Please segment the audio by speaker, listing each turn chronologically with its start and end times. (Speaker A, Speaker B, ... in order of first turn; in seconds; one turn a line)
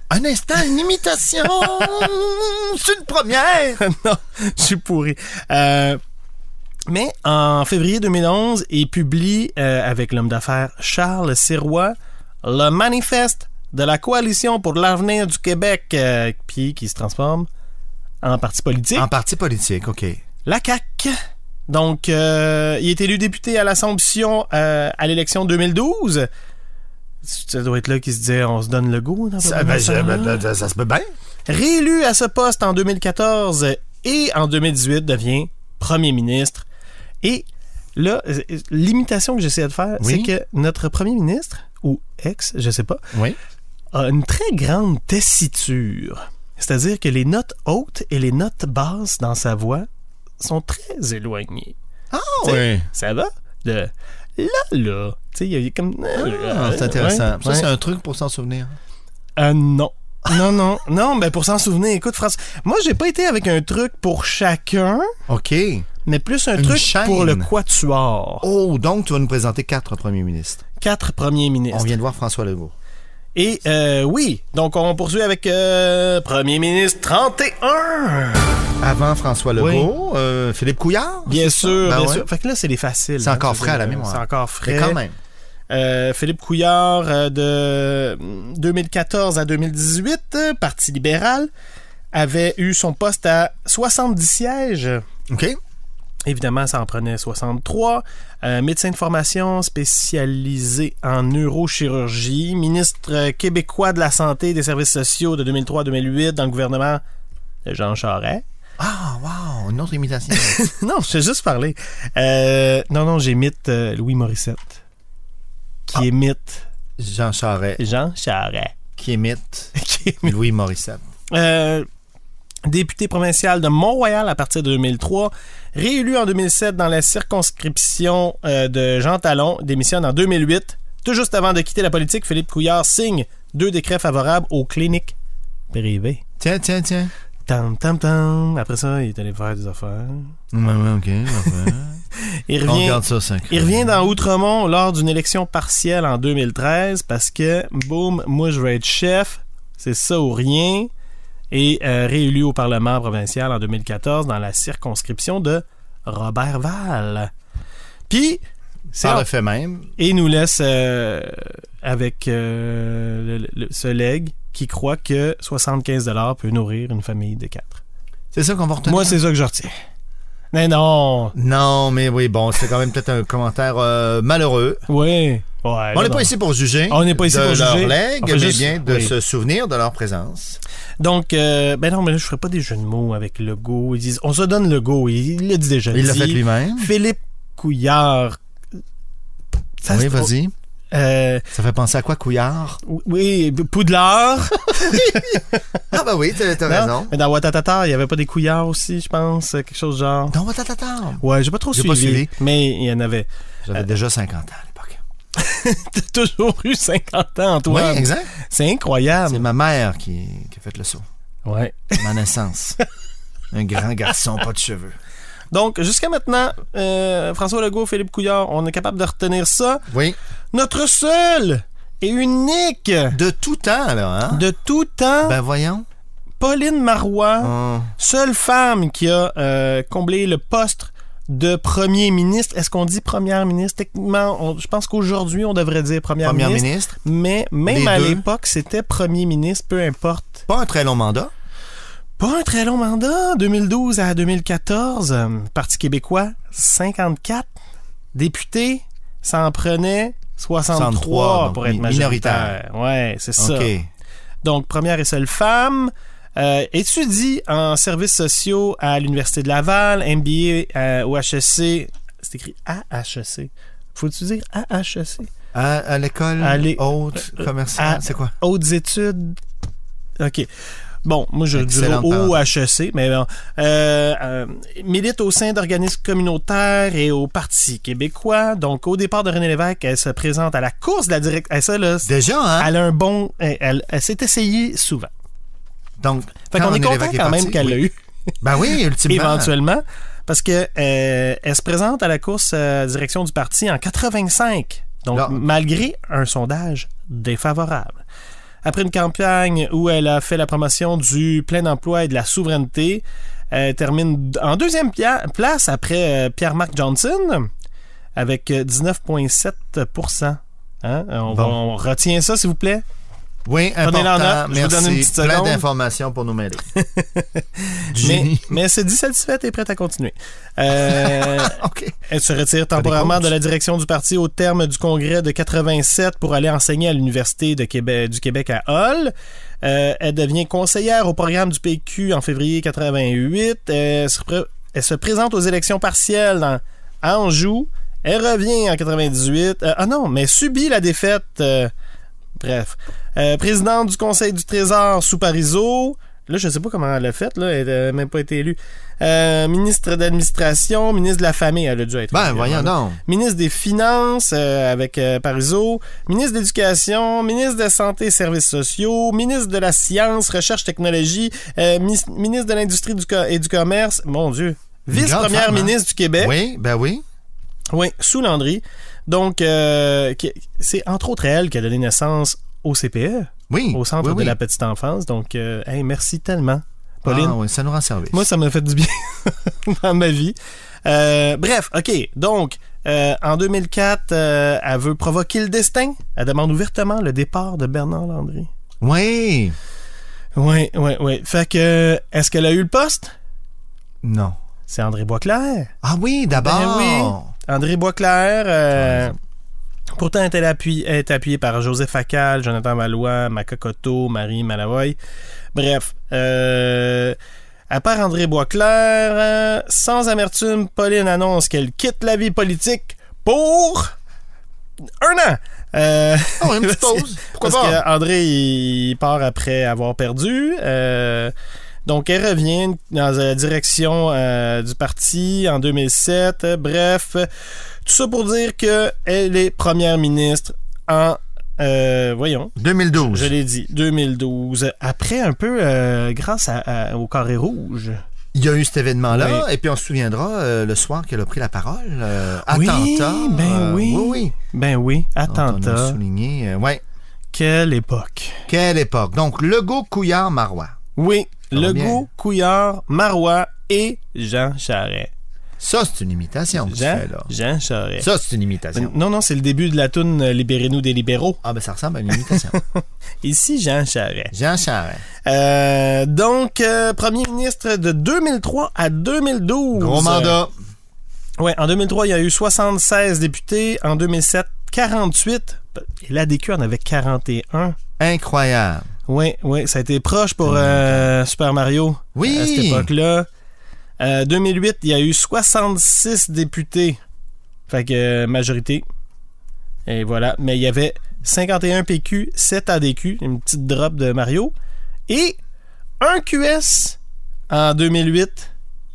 Speaker A: 0.1-3.8
Speaker B: 1.6-2.0
Speaker B: 3.8-6.0
Speaker B: 6.9-17.5
Speaker B: 18.2-19.1
Speaker A: 19.0-20.2
Speaker B: 20.4-21.1
Speaker B: 21.7-26.3
Speaker B: 27.2-30.4
Speaker A: 29.4-31.1
Speaker B: 31.5-36.7
Speaker B: 37.2-43.0
Speaker A: 40.0-40.3
Speaker B: 43.9-49.9
Speaker B: 50.4-51.8
Speaker A: 52.1-52.9
Speaker B: 52.4-57.7
Speaker A: 56.1-58.8
Speaker B: 59.4-65.1
Speaker A: 65.3-65.9
Speaker B: 66.0-68.5
Speaker A: 66.5-67.5
Speaker A: 68.4-70.6
Speaker B: 70.8-72.0
Speaker A: 71.7-72.7
Speaker B: 73.3-78.7
Speaker A: 78.8-82.3
Speaker B: 79.6-79.9
Speaker B: 81.3-85.0
Speaker A: 83.2-85.2
Speaker B: 85.7-91.5
Speaker B: 92.1-95.0
Speaker A: 95.3-95.6
Speaker B: 96.3-107.0
Speaker B: 107.7-108.4
Speaker A: 108.8-110.6
Speaker B: 110.3-114.8
Speaker B: 115.9-116.7
Speaker A: 117.0-117.8
Speaker B: 117.8-118.8
Speaker A: 119.0-121.0
Speaker B: 119.8-120.3
Speaker B: 121.3-121.9
Speaker B: 122.7-135.2
Speaker B: 135.7-136.2
Speaker A: 136.4-137.1
Speaker B: 137.5-140.3
Speaker A: 140.5-142.0
Speaker B: 142.1-150.9
Speaker A: 142.6-143.9
Speaker B: 151.5-157.3
Speaker B: 158.1-158.4
Speaker B: 158.9-159.3
Speaker A: 159.0-159.9
Speaker B: 160.0-167.8
Speaker A: 168.3-169.2
Speaker B: 168.9-169.7
Speaker B: 170.5-171.4
Speaker A: 171.4-174.8
Speaker B: 174.9-176.3
Speaker A: 175.9-180.6
Speaker B: 176.9-179.1
Speaker B: 181.0-188.4
Speaker A: 185.9-186.9
Speaker B: 189.8-190.3
Speaker A: 189.9-190.5
Speaker B: 190.9-191.5
Speaker A: 191.5-192.8
Speaker B: 192.8-195.6
Speaker A: 194.8-197.2
Speaker B: 196.6-200.3
Speaker A: 200.3-202.3
Speaker B: 201.2-203.3
Speaker A: 203.7-205.0
Speaker B: 205.4-209.4
Speaker A: 207.7-208.3
Speaker A: 209.3-211.1
Speaker B: 211.4-212.1
Speaker A: 212.0-212.8
Speaker A: 213.5-215.0
Speaker B: 215.5-219.8
Speaker A: 219.9-220.2
Speaker B: 220.5-223.2
Speaker A: 223.1-224.4
Speaker B: 224.3-225.4
Speaker A: 225.2-225.9
Speaker B: 226.4-240.4
Speaker A: 227.4-227.9
Speaker A: 236.2-236.9
Speaker A: 237.7-238.2
Speaker A: 240.5-241.3
Speaker B: 242.2-247.5
Speaker B: 248.1-253.7
Speaker A: 250.7-252.6
Speaker A: 253.4-253.9
Speaker B: 254.4-265.3
Speaker A: 265.5-268.3
Speaker B: 266.4-269.4
Speaker B: 270.2-270.5
Speaker B: 271.0-285.1
Speaker A: 271.5-272.4
Speaker A: 282.1-282.7
Speaker A: 286.0-287.8
Speaker B: 286.5-287.9
Speaker A: 288.4-289.5
Speaker B: 289.1-298.0
Speaker A: 295.1-295.4
Speaker B: 298.6-307.5
Speaker B: 308.1-312.8
Speaker A: 311.3-311.6
Speaker A: 313.5-316.6
Speaker B: 313.8-315.6
Speaker B: 316.8-341.7
Speaker A: 317.9-318.6
Speaker A: 320.7-321.9
Speaker A: 322.8-323.3
Speaker B: 342.4-366.4
Speaker A: 352.1-353.0
Speaker A: 364.9-367.0
Speaker B: 367.7-377.4
Speaker A: 373.5-374.4
Speaker A: 377.1-378.2
Speaker B: 378.1-388.5
Speaker A: 388.8-389.6
Speaker B: 390.4-393.1
Speaker A: 394.0-394.4
Speaker B: 394.7-395.7
Speaker A: 395.8-397.3
Speaker B: 396.3-399.1
Speaker A: 398.8-399.1
Speaker B: 400.0-405.0
Speaker B: 405.6-407.2
Speaker B: 407.7-413.9
Speaker B: 415.0-421.3
Speaker A: 416.4-417.8
Speaker B: 421.9-427.3
Speaker B: 427.8-438.0
Speaker A: 432.6-433.3
Speaker A: 438.4-444.3
Speaker B: 439.1-439.5
Speaker B: 442.5-446.0
Speaker A: 445.3-446.8
Speaker B: 447.3-448.4
Speaker A: 448.5-450.7
Speaker B: 451.0-455.1
Speaker A: 451.5-452.1
Speaker A: 455.6-457.3
Speaker B: 456.6-458.1
Speaker A: 458.0-458.9
Speaker B: 458.7-461.4
Speaker A: 461.4-462.6
Speaker B: 462.1-464.3
Speaker A: 464.3-465.0
Speaker B: 465.2-470.4
Speaker A: 469.8-470.5
Speaker B: 471.4-477.8
Speaker A: 478.0-478.9
Speaker B: 479.1-483.3
Speaker A: 480.4-481.1
Speaker A: 482.2-482.9
Speaker B: 484.0-487.0
Speaker B: 487.7-488.8
Speaker B: 489.9-494.5
Speaker B: 495.1-495.4
Speaker B: 496.0-497.0
Speaker B: 497.5-498.5